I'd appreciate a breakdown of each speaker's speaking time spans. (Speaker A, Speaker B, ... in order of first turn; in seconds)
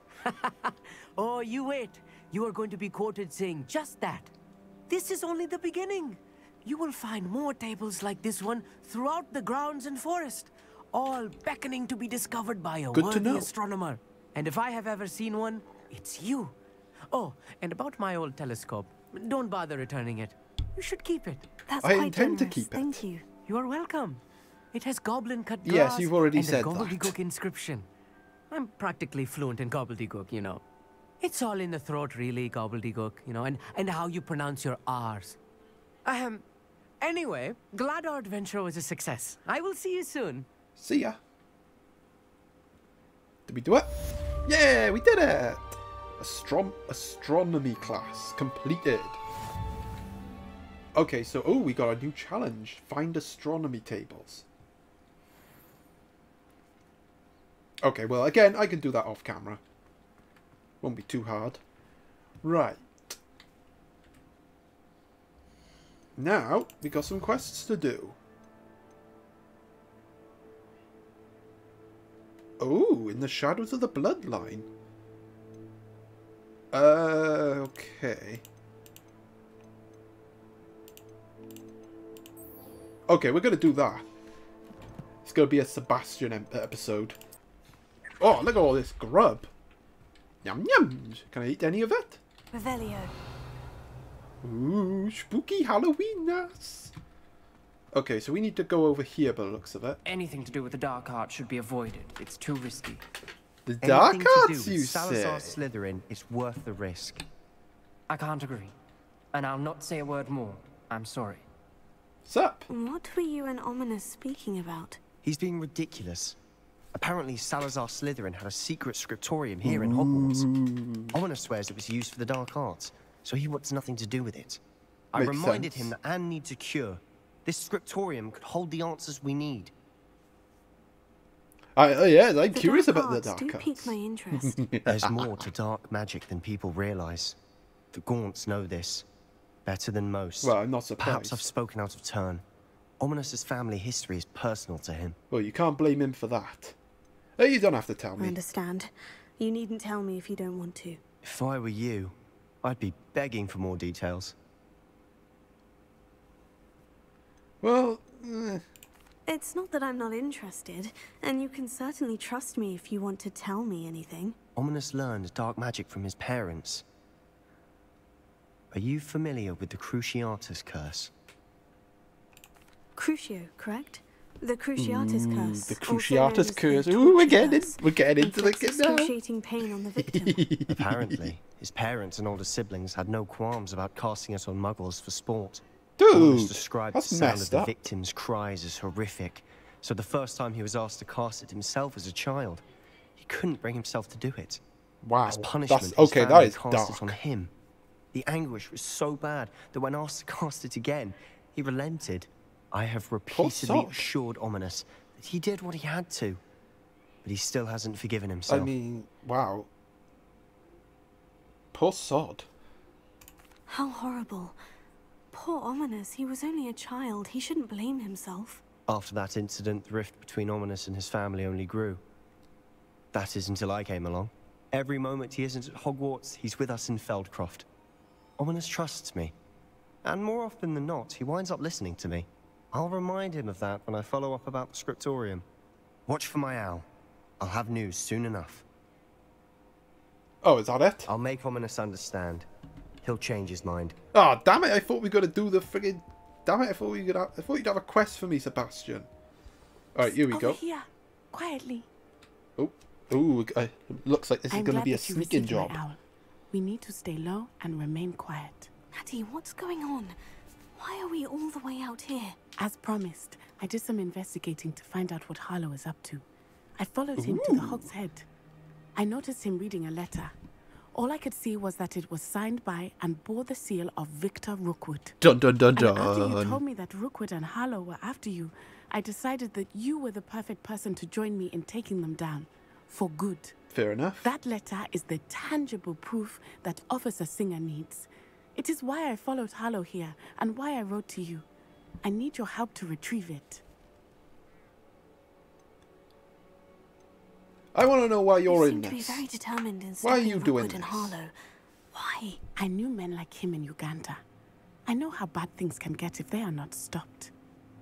Speaker A: 0.2-4.3, 4.9-16.5, 17.1-21.5, 23.5-24.2, 24.7-27.9, 28.5-30.6, 31.2-35.4, 36.0-36.4, 37.0-40.5
Speaker B: 12.9-13.5, 21.8-23.0, 25.6-27.1, 40.8-41.2, 43.5-43.9, 44.5-49.2, 51.0-54.5, 57.8-59.6, 60.8-61.6, 62.4-63.2, 66.2-68.2, 72.6-74.7, 76.7-78.4, 83.1-84.0, 85.2-87.2, 88.2-89.5, 90.4-92.2, 94.4-96.9, 97.9-100.0, 103.7-105.6, 112.2-112.7, 119.7-121.2, 125.2-125.9, 131.8-135.4, 140.4-141.5, 145.3-146.8, 147.4-148.4, 157.6-158.6, 174.8-179.1, 180.0-181.3, 186.0-187.7, 195.0-197.2, 203.3-204.1, 208.5-209.7, 211.7-212.5, 240.4-241.1, 244.1-249.1, 249.9-250.6, 252.6-255.8, 267.2-267.8, 275.2-276.6, 283.7-284.3, 297.7-299.2, 300.0-301.1
Speaker C: 21.7-23.2, 92.5-93.1, 112.7-115.0, 132.5-134.6, 148.2-151.0, 159.3-164.4, 173.0-180.4, 213.7-214.6, 215.3-218.6, 258.9-260.2, 260.8-262.4, 298.5-301.3, 301.9-302.4
Speaker D: 100.0-103.0, 108.1-108.8, 109.3-111.5
Speaker E: 103.8-107.2, 115.2-116.4, 116.9-120.5, 121.1-124.6, 125.1-129.7, 134.9-137.4, 137.9-139.1, 139.7-142.4, 143.0-145.2, 151.2-154.3, 164.6-166.8, 168.7-171.1, 180.7-192.6, 193.2-194.6, 195.3-197.5, 198.1-206.4, 207.2-208.7, 218.9-222.0, 223.1-227.7, 228.4-229.3, 230.0-235.4, 236.1-236.9, 237.4-238.6, 241.1-242.5, 243.0-244.0
Speaker F: 250.1-251.9, 254.5-256.0, 256.5-258.7, 262.6-266.2, 266.8-268.3, 268.9-270.3, 270.9-275.2, 275.8-283.5, 284.2-291.4, 292.0-293.6, 302.6-304.2, 304.9-307.3